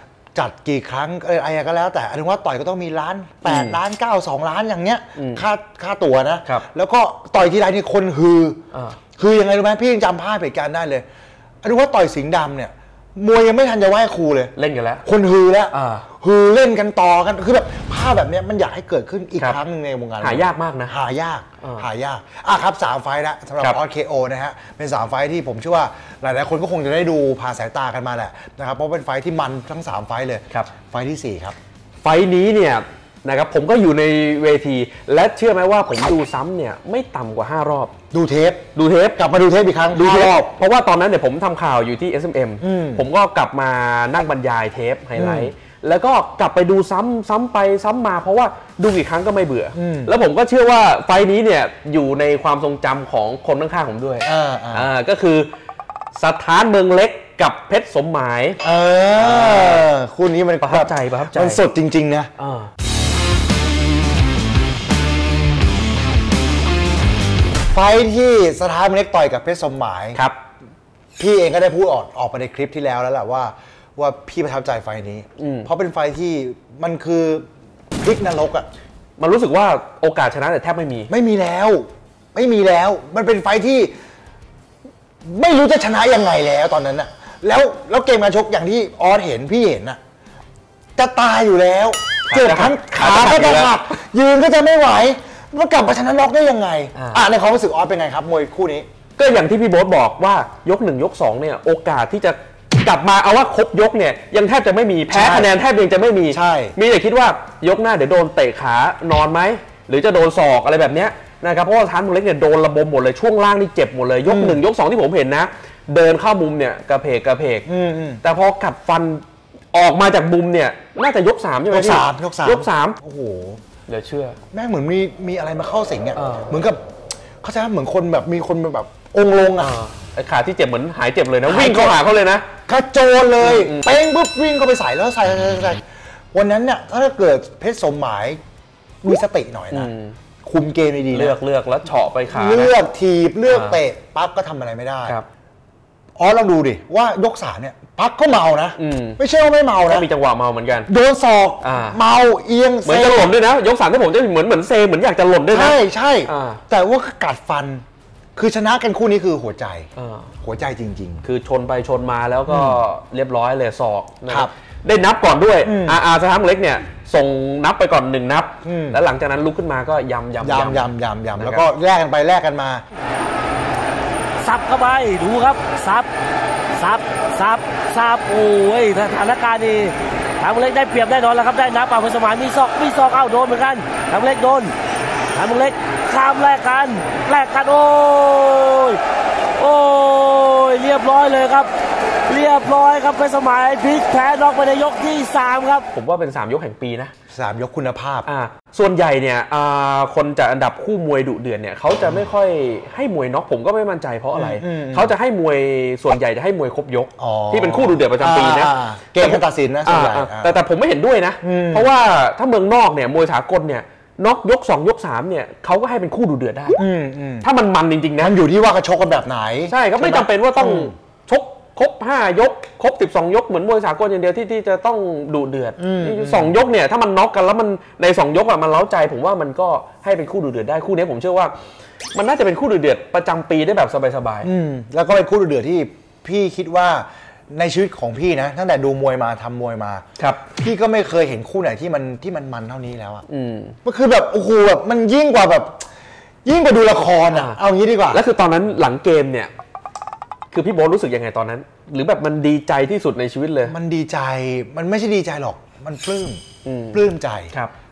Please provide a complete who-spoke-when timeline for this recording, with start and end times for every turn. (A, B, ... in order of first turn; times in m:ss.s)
0:00.4-0:08.6 A
0:03.5-0:03.8 B
0:05.2-0:05.4 B
0:08.7-0:09.0 B
0:09.2-0:11.0 A
0:11.6-0:14.5 A
0:14.6-0:15.0 B
0:15.0-0:31.6 A
0:15.7-0:16.1 B
0:20.2-0:21.0 B
0:32.0-0:37.9 B
0:38.1-0:40.5 A
0:38.8-0:39.2 B
0:39.9-0:55.5 B
0:42.6-0:43.0 A
0:45.2-0:45.5 A
0:49.8-0:50.1 A
0:54.2-0:54.9 A
0:56.2-0:58.6 B
0:58.6-1:02.3 A
0:59.2-0:59.8 B
1:00.6-1:01.6 B
1:02.4-1:02.7 B
1:07.7-1:10.2 A
1:11.2-1:17.5 A
1:15.4-1:15.7 B
1:18.0-1:18.7 A
1:19.2-1:21.1 B
1:21.1-1:23.9 A
1:25.2-1:30.0 A
1:31.0-1:38.9 A
1:32.3-1:33.8 B
1:37.0-1:37.2 B
1:39.2-1:57.7 B
1:45.1-1:45.5 A
1:46.3-1:46.8 A
1:54.3-1:54.6 A
1:57.7-1:58.2 A
1:58.2-2:03.0 B
2:01.7-2:03.6 A
2:03.9-2:04.4 B
2:04.5-2:06.8 A
2:06.2-2:06.5 B
2:07.4-2:09.8 A
2:09.6-2:12.5 B
2:11.5-2:12.0 A
2:12.7-2:15.8 A
2:13.4-2:13.9 B
2:16.3-2:18.4 A
2:19.0-2:19.9 A
2:19.7-2:20.2 B
2:20.4-2:21.4 A
2:21.1-2:22.7 B
2:22.3-2:25.2 A
2:23.5-2:23.8 B
2:26.2-2:30.1 A
2:28.8-2:29.2 B
2:29.9-2:30.9 B
2:30.9-2:33.3 A
2:31.6-2:32.0 B
2:32.8-2:36.6 B
2:35.5-2:37.8 A
2:38.4-2:39.9 A
2:40.0-2:40.3 B
2:40.4-2:41.2 A
2:41.2-2:51.6 B
2:42.5-2:42.8 A
2:45.6-2:46.0 A
2:48.6-2:49.0 A
2:50.4-2:52.8 A
2:54.4-2:56.1 C
2:56.8-3:04.7 C
3:05.3-3:09.0 C
3:09.6-3:11.7 C
3:12.3-3:15.9 C
3:15.9-3:17.1 B
3:17.3-3:18.3 A
3:18.3-3:36.8 B
3:24.3-3:25.1 A
3:27.2-3:30.6 A
3:31.4-3:31.9 A
3:36.8-3:37.5 A
3:37.4-3:38.3 B
3:38.2-3:40.9 A
3:39.7-3:51.5 B
3:45.8-3:46.5 A
3:52.1-3:54.5 B
3:54.4-4:03.2 A
4:03.3-4:03.8 B
4:03.8-4:05.8 A
4:06.4-4:08.2 A
4:07.3-4:07.6 B
4:08.1-4:09.5 B
4:10.5-4:13.8 B
4:13.7-4:17.5 A
4:16.6-4:17.7 B